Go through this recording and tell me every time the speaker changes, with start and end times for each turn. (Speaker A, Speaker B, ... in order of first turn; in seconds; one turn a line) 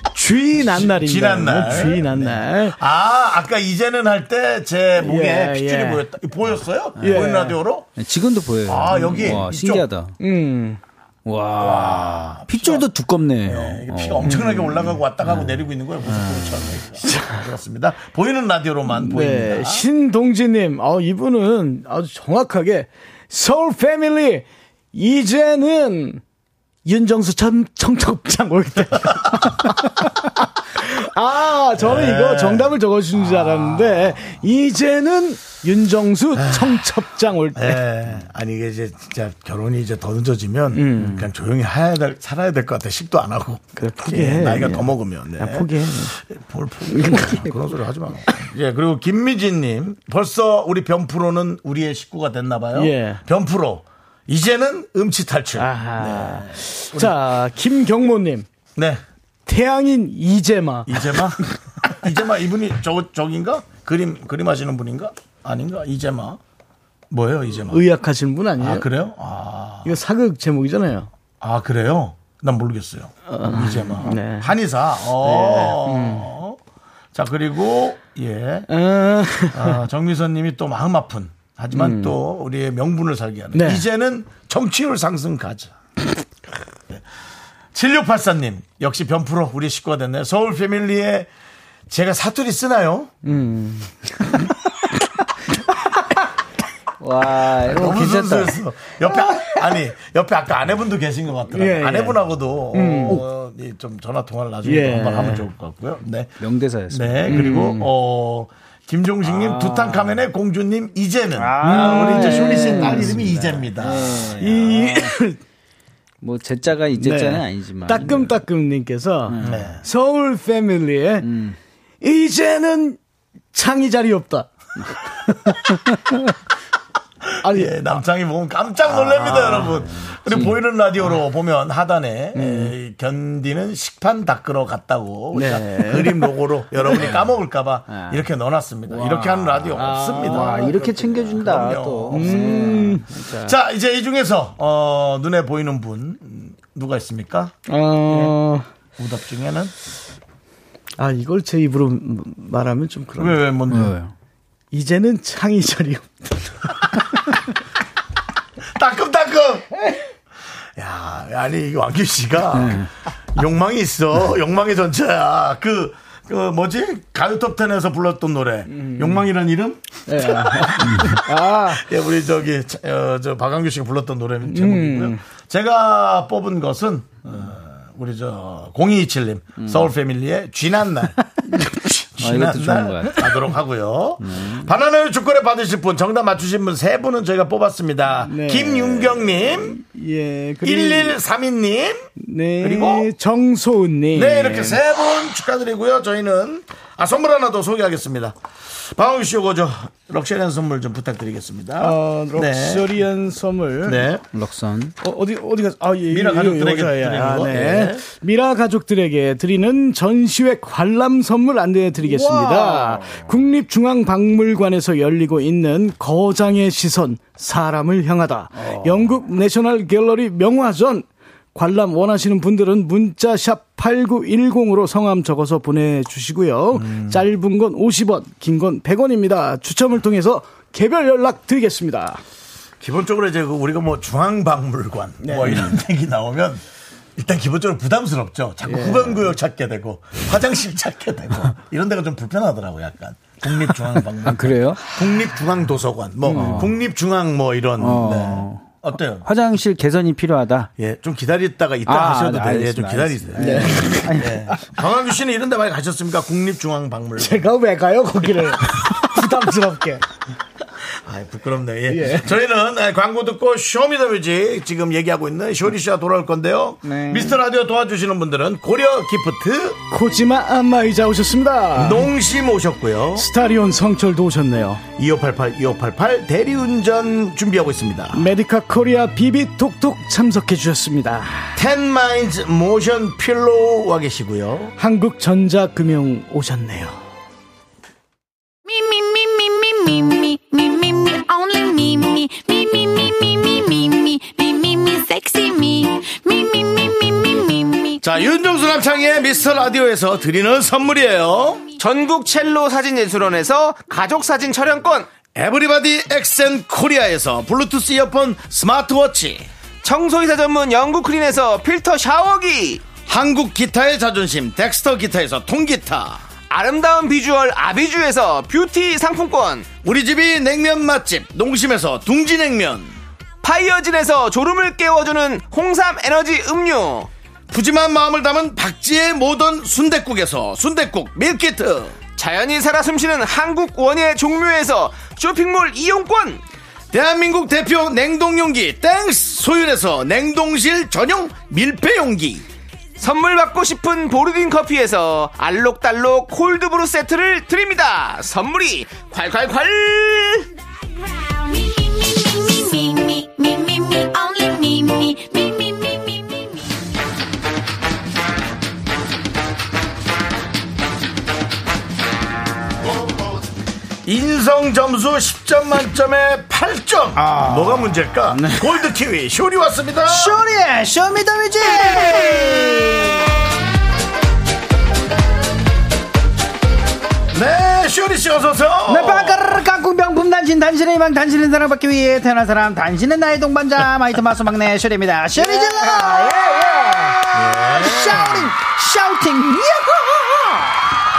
Speaker A: 0.1-2.8
Speaker B: 0.7-7.9
Speaker A: 5.0-6.0
Speaker C: 7.0-7.3
Speaker A: 7.0-7.6
Speaker C: 8.0-10.1
Speaker B: 8.7-9.9
Speaker A: 10.2-10.8
Speaker C: 11.2-16.8
Speaker B: 11.6-12.9
Speaker B: 13.4-19.8
Speaker A: 14.2-14.6
Speaker A: 17.0-17.4
Speaker A: 18.9-26.2
Speaker A: 26.8-30.1
Speaker A: 30.7-37.8
Speaker B: 31.8-32.7
Speaker B: 33.3-34.1
Speaker B: 36.4-36.8
Speaker B: 37.5-57.2
Speaker A: 40.7-41.2
Speaker A: 43.8-46.1
Speaker A: 46.9-47.4
Speaker A: 52.7-53.2
Speaker A: 55.6-58.5
Speaker B: 58.8-59.0
Speaker A: 59.5-61.2
Speaker B: 60.9-66.4
Speaker B: 67.1-67.8
Speaker A: 67.7-68.8
Speaker B: 68.6-69.9
Speaker A: 69.8-71.1
Speaker B: 71.4-76.6
Speaker A: 73.3-74.5
Speaker A: 75.2-76.3
Speaker B: 77.1-78.7
Speaker A: 78.7-79.8
Speaker B: 79.5-85.7
Speaker A: 81.7-82.2
Speaker A: 83.5-83.8
Speaker B: 87.7-91.3
Speaker B: 91.9-93.1
Speaker A: 93.2-93.9
Speaker C: 97.0-98.6
Speaker B: 97.4-106.4
Speaker A: 101.5-102.2
Speaker A: 102.7-103.2
Speaker A: 104.6-105.4
Speaker C: 106.4-107.8
Speaker B: 106.9-114.4
Speaker A: 107.3-107.9
Speaker C: 109.3-110.2
Speaker C: 111.3-115.1
Speaker A: 111.6-113.2
Speaker A: 114.4-115.4
Speaker C: 116.2-118.4
Speaker A: 116.9-121.3
Speaker C: 119.3-119.7
Speaker B: 119.4-119.8
Speaker C: 121.2-121.5
Speaker A: 122.0-123.0
Speaker A: 123.5-124.5
Speaker C: 125.5-125.9
Speaker A: 127.4-128.0
Speaker B: 127.4-147.5
Speaker C: 129.0-130.6
Speaker A: 132.3-132.7
Speaker A: 135.3-136.3
Speaker A: 136.8-137.1
Speaker C: 136.9-137.2
Speaker C: 137.9-138.2
Speaker C: 138.9-143.1
Speaker A: 139.7-140.8
Speaker A: 142.1-143.5
Speaker A: 147.7-148.7
Speaker B: 149.0-149.7
Speaker A: 151.0-153.4
Speaker B: 153.2-153.9
Speaker C: 153.7-154.1
Speaker A: 154.7-156.7
Speaker B: 158.7-159.8
Speaker B: 160.8-189.8
Speaker C: 162.5-162.9
Speaker A: 168.7-169.2
Speaker A: 170.1-171.8
Speaker C: 170.8-171.2
Speaker A: 174.4-175.2
Speaker C: 179.6-179.9
Speaker C: 182.2-183.5
Speaker C: 184.2-184.7
Speaker A: 188.2-191.2
Speaker B: 190.6-192.1
Speaker A: 192.2-194.8
Speaker B: 192.6-193.1
Speaker B: 194.1-198.3
Speaker B: 198.9-203.0
Speaker A: 201.8-204.1
Speaker B: 203.8-204.2
Speaker C: 204.3-204.9
Speaker A: 205.0-232.2
Speaker B: 206.1-208.0
Speaker C: 212.0-213.2
Speaker B: 218.6-219.1
Speaker B: 226.8-227.2
Speaker B: 232.8-236.6
Speaker A: 235.2-235.7
Speaker C: 235.5-235.8
Speaker B: 237.2-249.3
Speaker A: 238.7-239.3
Speaker C: 244.0-245.1
Speaker A: 246.2-246.7
Speaker C: 246.3-246.8
Speaker C: 247.8-250.7
Speaker B: 250.8-257.4
Speaker C: 251.8-254.5
Speaker A: 253.4-254.3
Speaker A: 257.2-260.0
Speaker B: 261.0-269.8
Speaker A: 261.9-262.3
Speaker C: 266.8-267.4
Speaker A: 269.9-272.1
Speaker B: 271.7-273.3
Speaker A: 273.1-274.8
Speaker B: 275.0-278.3
Speaker A: 278.1-281.6
Speaker B: 281.6-284.7
Speaker A: 284.8-287.0
Speaker D: 288.6-298.1
Speaker B: 298.0-301.6
Speaker E: 301.8-305.1
Speaker B: 305.3-309.5
Speaker E: 309.8-312.9
Speaker B: 313.0-316.2
Speaker E: 316.5-319.7
Speaker B: 319.8-322.9
Speaker E: 323.4-327.1
Speaker B: 327.5-332.0
Speaker E: 332.1-336.4
Speaker B: 336.9-342.4
Speaker E: 343.0-350.5
Speaker D: 351.3-356.7
Speaker B: 364.0-370.4
Speaker C: 367.1-368.8
Speaker C: 370.1-373.2
Speaker B: 377.3-379.4
Speaker C: 378.9-390.8
Speaker A: 385.4-387.2
Speaker B: 387.3-388.5